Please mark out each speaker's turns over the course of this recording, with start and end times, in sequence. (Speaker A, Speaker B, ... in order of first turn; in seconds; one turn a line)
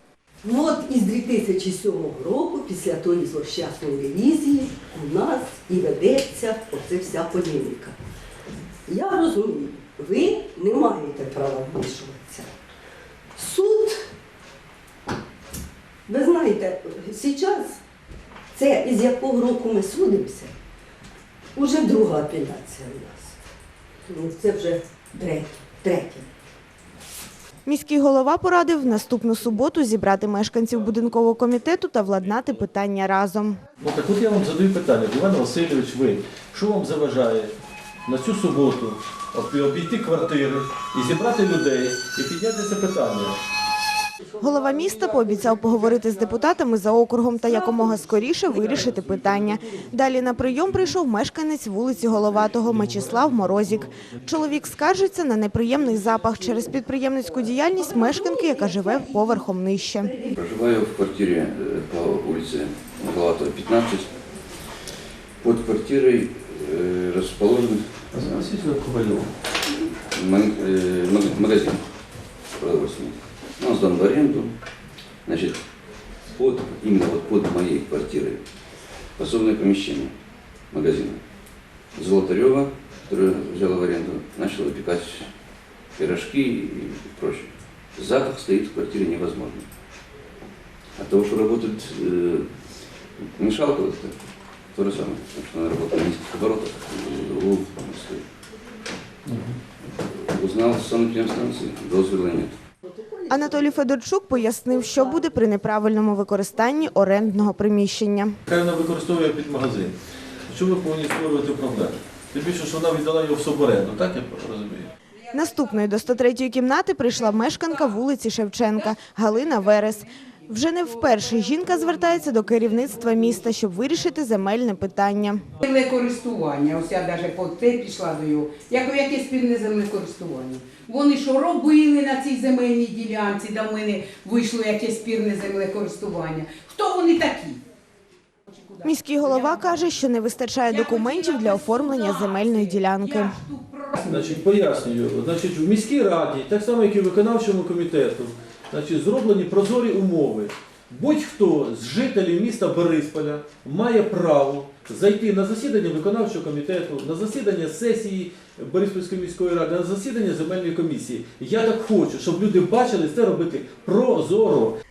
Speaker A: 0.4-8.0
Speaker A: 8.9-12.6
Speaker A: 13.3-14.1
Speaker A: 16.1-17.8
Speaker A: 18.5-20.5
Speaker A: 21.5-23.4
Speaker A: 24.1-26.3
Speaker B: 27.6-33.6
Speaker C: 33.8-37.5
Speaker C: 38.0-43.4
Speaker B: 44.4-60.2
Speaker D: 60.4-64.1
Speaker D: 65.4-68.3
Speaker C: 68.1-69.3
Speaker D: 70.1-71.8
Speaker D: 72.5-74.5
Speaker D: 75.2-75.6
Speaker D: 76.3-78.4
Speaker D: 79.2-80.1
Speaker D: 80.7-81.2
Speaker D: 81.9-85.3
Speaker D: 86.0-89.7
Speaker D: 91.0-92.5
Speaker D: 93.4-94.1
Speaker D: 94.7-98.2
Speaker C: 99.3-99.5
Speaker D: 100.0-102.5
Speaker A: 102.9-103.3
Speaker B: 103.3-108.4
Speaker C: 108.5-110.0
Speaker C: 110.5-114.9
Speaker B: 115.3-125.6
Speaker E: 125.6-137.6
Speaker E: 138.5-139.7
Speaker B: 138.8-143.4
Speaker E: 140.7-144.3
Speaker C: 144.0-164.7